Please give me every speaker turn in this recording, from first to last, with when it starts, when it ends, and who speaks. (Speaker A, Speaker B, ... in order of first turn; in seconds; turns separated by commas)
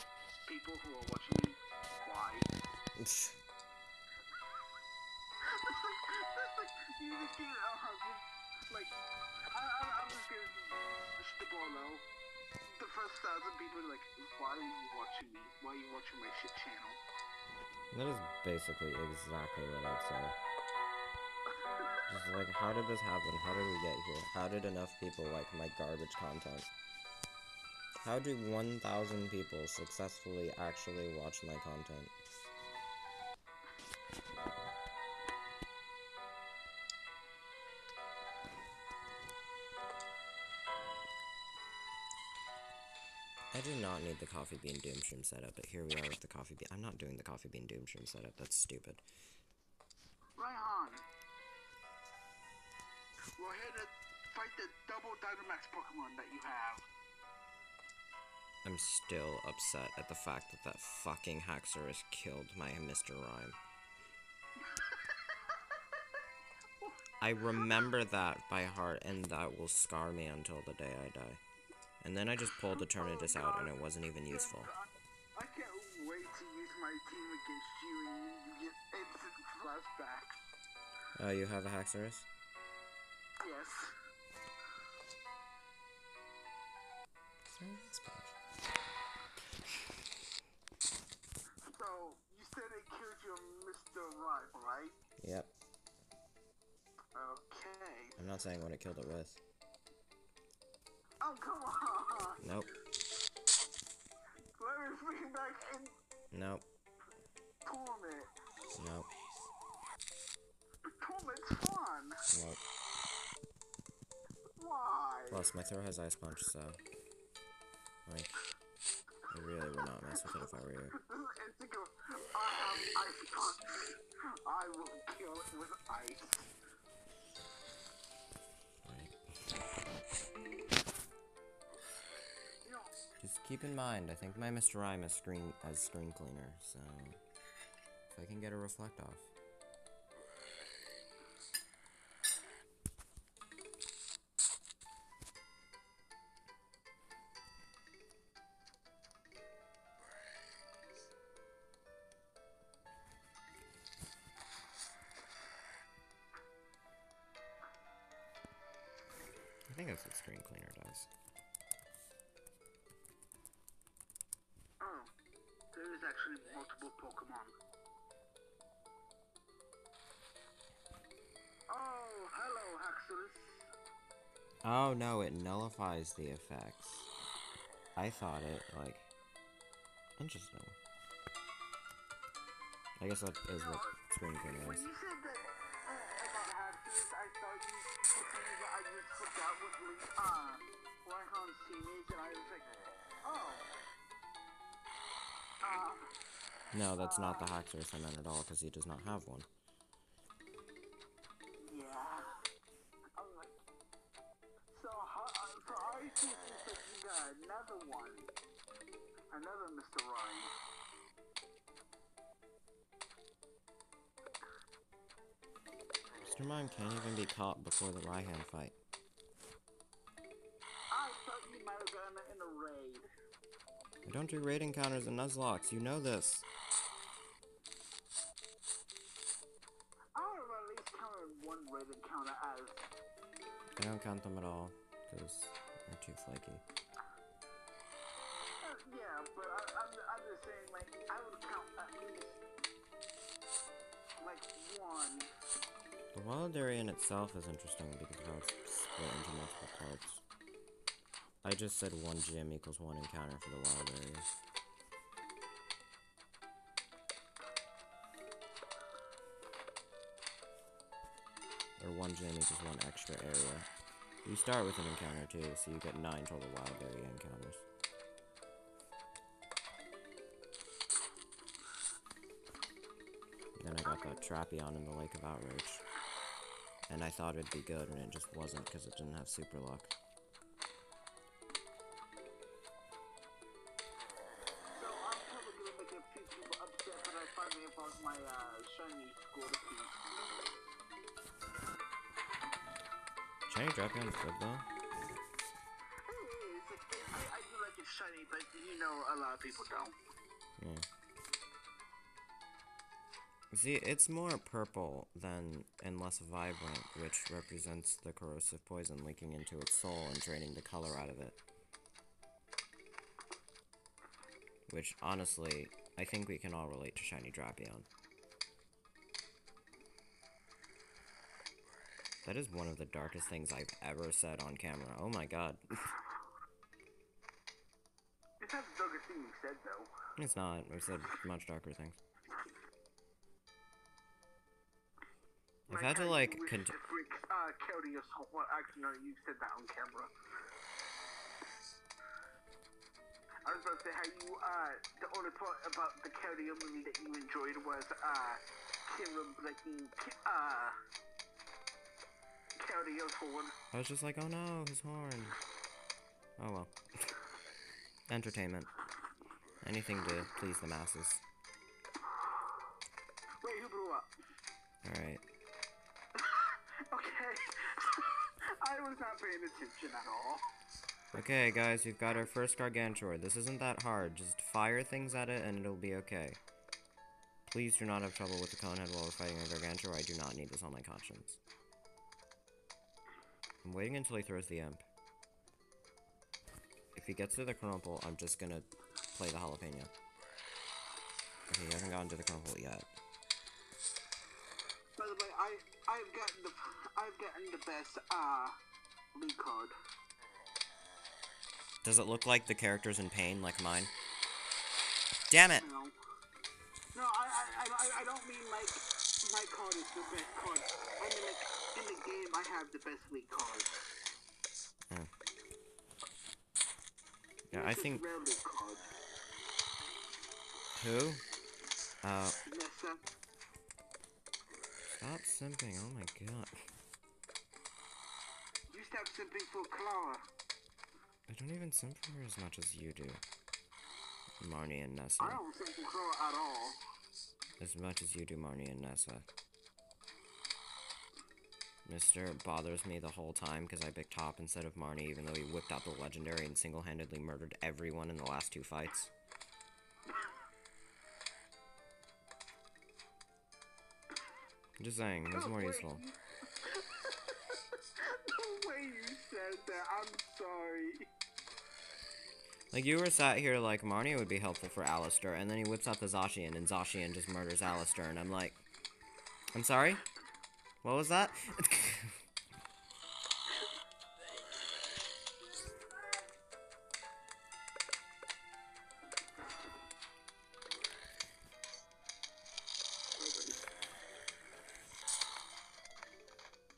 Speaker A: 0.5-2.5, Speaker B: 3.0-3.4, Speaker A: 5.4-9.0, Speaker A: 9.5-12.1, Speaker A: 12.7-17.0, Speaker B: 17.9-20.4, Speaker A: 21.6-22.0, Speaker B: 22.1-26.7, Speaker B: 28.0-32.1, Speaker B: 43.5-49.0, Speaker A: 50.4-51.1, Speaker A: 53.4-56.9, Speaker B: 58.6-63.6, Speaker A: 64.6-65.8, Speaker A: 66.8-67.8, Speaker B: 67.2-71.4, Speaker B: 72.0-74.7, Speaker A: 72.7-80.4, Speaker B: 81.2-82.3, Speaker A: 83.4-84.0, Speaker B: 87.5-88.4, Speaker A: 91.6-95.0, Speaker B: 95.2-95.5, Speaker A: 97.2-98.2, Speaker B: 98.2-99.4, Speaker A: 101.2-102.4, Speaker B: 102.4-102.7, Speaker A: 104.6-105.9, Speaker B: 106.3-106.7, Speaker A: 107.7-108.3, Speaker B: 108.7-109.1, Speaker A: 110.9-112.2, Speaker B: 112.3-112.6, Speaker A: 114.6-115.5, Speaker B: 115.3-116.8, Speaker B: 118.1-118.3, Speaker B: 119.3-121.0, Speaker A: 120.1-123.8, Speaker A: 124.5-126.5, Speaker B: 128.8-129.2, Speaker A: 132.7-132.9, Speaker B: 133.2-137.2, Speaker B: 138.1-139.3, Speaker B: 159.7-161.1, Speaker A: 164.8-165.1, Speaker A: 165.7-167.6, Speaker A: 171.7-173.7, Speaker B: 174.6-177.1, Speaker B: 178.0-179.1, Speaker B: 180.2-180.8, Speaker B: 183.0-184.8, Speaker A: 183.5-184.0, Speaker A: 184.5-192.7, Speaker A: 193.2-193.7, Speaker A: 195.6-196.1, Speaker B: 196.7-199.5, Speaker A: 197.0-197.5, Speaker A: 201.7-202.4, Speaker A: 203.2-203.6, Speaker A: 204.7-208.3, Speaker A: 209.3-210.5, Speaker B: 216.2-218.8, Speaker A: 220.9-223.1, Speaker B: 224.1-226.5, Speaker A: 230.2-232.9, Speaker B: 233.8-236.6, Speaker A: 238.6-242.4, Speaker A: 244.2-245.3, Speaker B: 246.1-250.2, Speaker B: 251.4-254.3, Speaker B: 261.8-263.7, Speaker B: 264.2-267.6, Speaker B: 273.6-275.8, Speaker B: 276.9-279.9, Speaker A: 284.8-290.0, Speaker B: 293.5-294.7, Speaker A: 296.1-300.0, Speaker B: 300.6-300.9, Speaker B: 303.5-311.4, Speaker B: 314.7-317.9, Speaker B: 322.2-325.9, Speaker A: 328.4-329.9, Speaker B: 330.2-332.0, Speaker A: 335.7-340.1, Speaker B: 335.7-336.8, Speaker A: 343.4-350.8, Speaker A: 352.6-353.6, Speaker B: 353.7-355.4, Speaker B: 356.4-357.1, Speaker B: 358.1-358.7, Speaker B: 359.6-361.2, Speaker A: 363.4-364.1, Speaker B: 364.8-365.2, Speaker A: 366.1-370.4, Speaker B: 371.1-376.4, Speaker B: 377.5-381.4, Speaker B: 383.6-384.9, Speaker B: 386.9-389.9, Speaker B: 391.5-392.9, Speaker A: 395.0-398.6, Speaker A: 399.1-399.8, Speaker B: 401.8-403.9, Speaker B: 405.3-405.7, Speaker A: 405.5-406.0, Speaker A: 406.9-413.8, Speaker B: 417.5-418.0, Speaker A: 417.5-418.9, Speaker B: 420.8-421.2, Speaker B: 422.0-422.4, Speaker A: 422.5-423.0, Speaker B: 425.0-426.7, Speaker A: 428.7-430.2, Speaker B: 431.3-433.2, Speaker B: 434.4-435.4, Speaker A: 435.2-436.8, Speaker B: 437.6-439.3, Speaker B: 441.9-449.1, Speaker B: 454.8-456.0, Speaker A: 455.3-461.1, Speaker B: 462.7-468.6, Speaker B: 469.5-470.1, Speaker B: 470.8-472.2, Speaker A: 483.2-483.6